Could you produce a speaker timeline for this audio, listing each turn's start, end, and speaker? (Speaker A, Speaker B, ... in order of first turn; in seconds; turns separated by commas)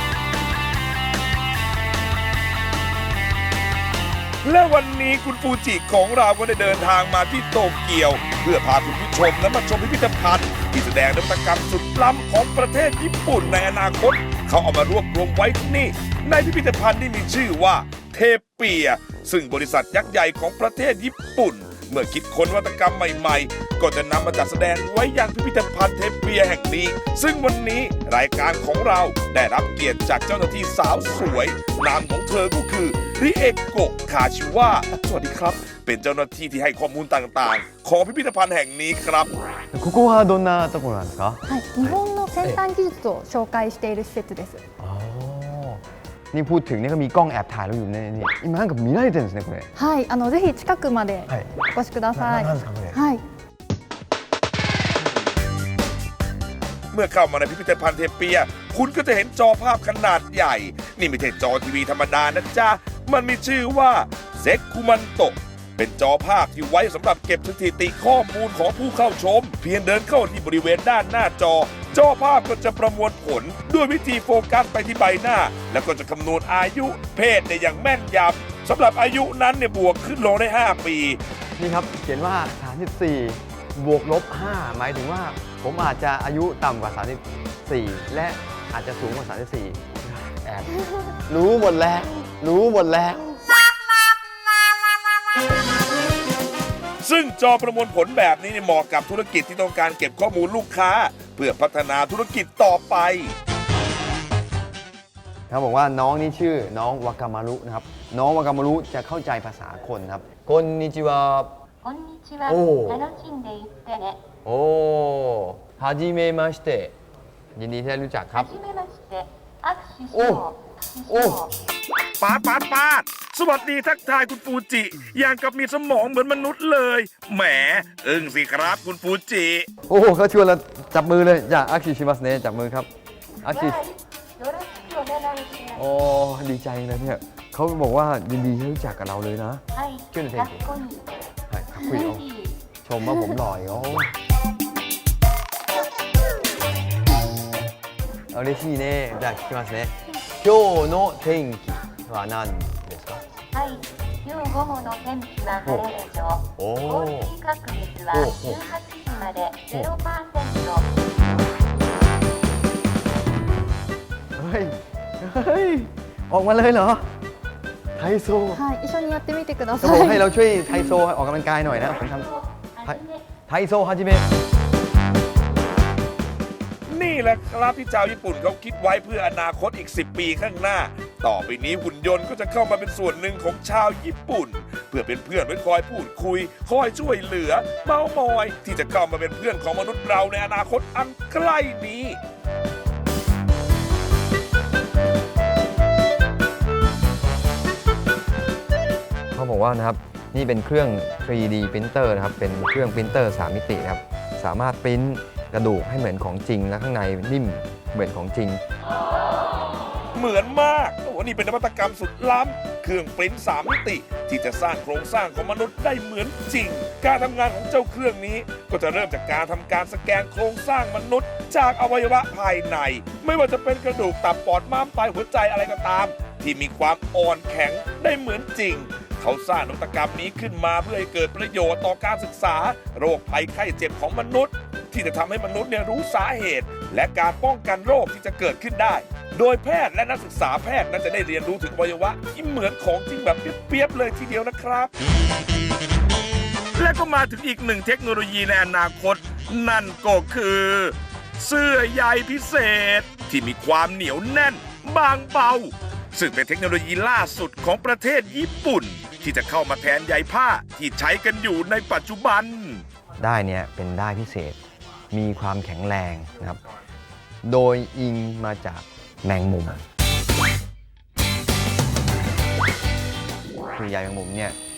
Speaker A: 4.4-39.3, Speaker B: 39.7-42.6, Speaker C: 41.5-44.6, Speaker B: 44.8-49.7, Speaker C: 49.8-53.2, Speaker B: 51.3-51.5, Speaker B: 52.1-53.0, Speaker A: 56.9-81.2, Speaker B: 81.6-93.4, Speaker A: 97.0-103.3, Speaker B: 105.5-111.5, Speaker D: 111.8-114.3, Speaker B: 112.5-113.0, Speaker B: 114.4-116.9, Speaker B: 117.6-118.5, Speaker D: 118.3-121.5, Speaker B: 120.1-120.5, Speaker B: 121.1-121.4, Speaker A: 122.2-129.7, Speaker B: 129.9-132.9, Speaker B: 133.4-133.8, Speaker D: 133.4-135.8, Speaker B: 135.8-140.7, Speaker D: 139.8-141.3, Speaker B: 141.5-142.3, Speaker C: 141.8-142.1, Speaker D: 142.1-142.7, Speaker B: 142.8-144.1, Speaker B: 148.3-153.2, Speaker D: 153.5-160.9, Speaker B: 156.6-157.4, Speaker B: 158.1-158.6, Speaker B: 164.4-167.1, Speaker B: 168.0-168.6, Speaker C: 168.5-170.3, Speaker B: 169.8-174.3, Speaker D: 172.3-173.2, Speaker A: 176.9-192.2, Speaker B: 199.3-208.6, Speaker A: 210.1-244.9, Speaker A: 246.8-262.9, Speaker B: 263.2-264.6, Speaker B: 265.1-266.6, Speaker B: 267.4-269.8, Speaker B: 273.7-274.6